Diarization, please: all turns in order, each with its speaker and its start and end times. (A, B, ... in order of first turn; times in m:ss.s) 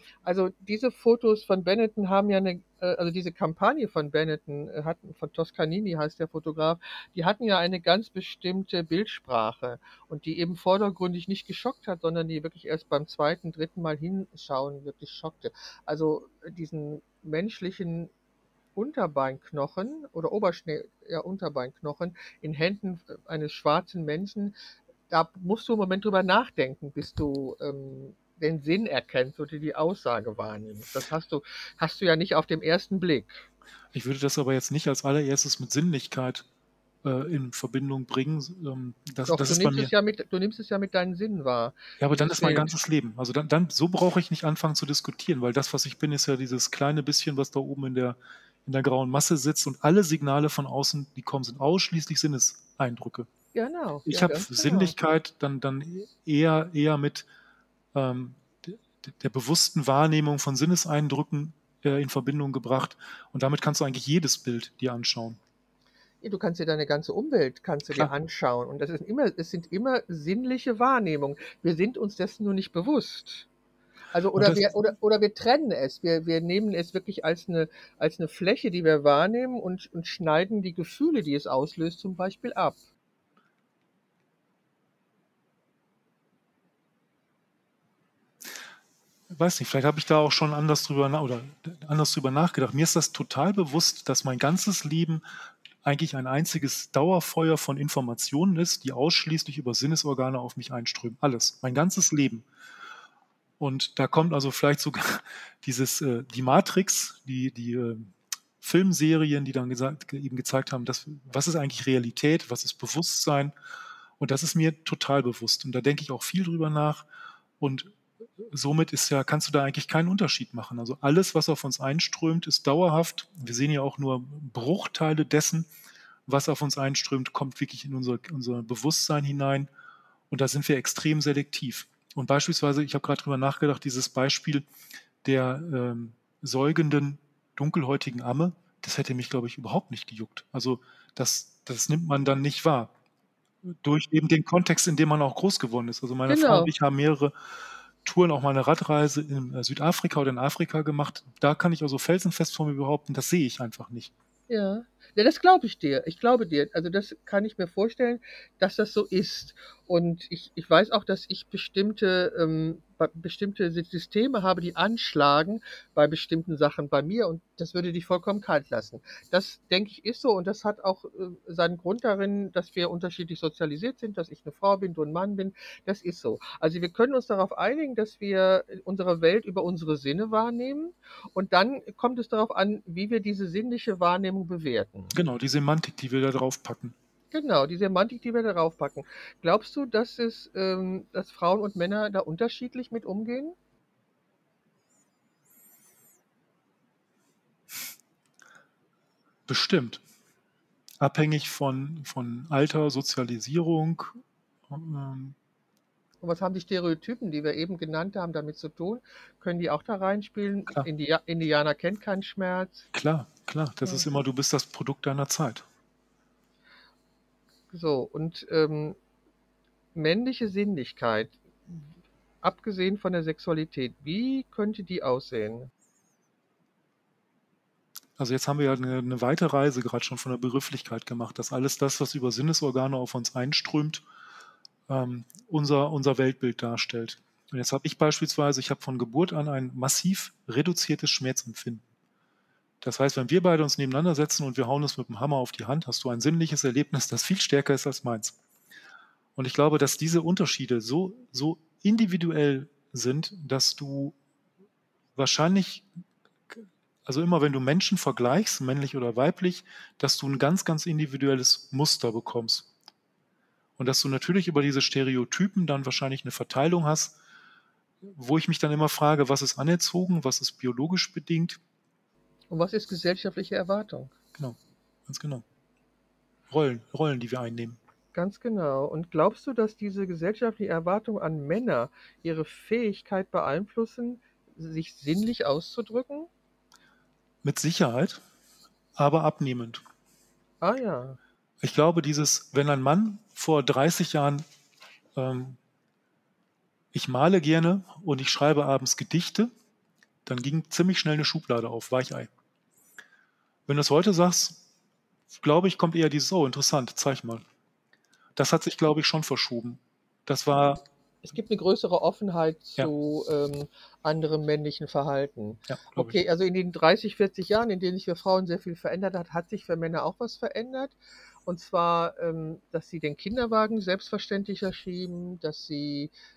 0:00.2-0:18.1 A
0:18.8-0:24.6 A
0:25.1-0:33.5 A
0:33.9-0:36.5 B
0:37.0-0:39.9 B
0:39.3-0:42.7 A
0:42.0-0:53.3 B
0:53.5-0:55.0 A
0:54.1-0:57.3 B
0:57.9-1:05.4 B
1:06.2-1:13.5 A
1:14.1-1:22.8 A
1:14.4-1:14.6 B
1:29.3-1:35.2 B
1:35.8-1:42.5 B
1:43.6-1:53.5 B
1:54.2-1:57.1 B
1:57.6-2:05.7 B
2:06.3-2:09.7 B
2:10.3-2:14.7 B
2:15.2-2:22.9 B
2:23.6-2:27.3 B
2:26.3-2:26.7 A
2:28.0-2:34.1 B
2:34.5-3:05.1 A
3:05.1-3:07.0 B
3:07.3-3:13.6 A
3:19.5-3:20.0 B
3:21.0-3:24.2 B
3:24.7-3:25.4 B
3:26.2-3:32.9 A
3:32.9-3:35.6 B
3:37.7-3:39.0 A
3:40.0-3:41.9 A
3:42.4-3:45.7 A
3:48.2-3:54.0 B
3:54.9-4:01.8 B
4:02.8-4:08.4 B
4:09.4-4:14.2 B
4:15.2-4:15.9 B
4:16.5-4:22.7 B
4:23.8-4:27.2 B
4:28.0-4:31.6 B
4:32.5-4:34.1 A
4:34.4-4:35.4 B
4:36.5-4:37.8 B
4:38.1-4:46.3 A
4:47.4-4:48.2 B
4:49.0-4:49.8 B
4:50.6-4:51.2 A
4:51.6-4:54.4 B
4:55.2-4:55.6 B
4:56.9-4:59.5 B
5:00.3-5:02.3 B
5:03.7-5:04.6 B
5:05.4-5:07.4 B
5:08.4-5:10.8 B
5:11.2-5:26.1 A
5:15.7-5:16.2 B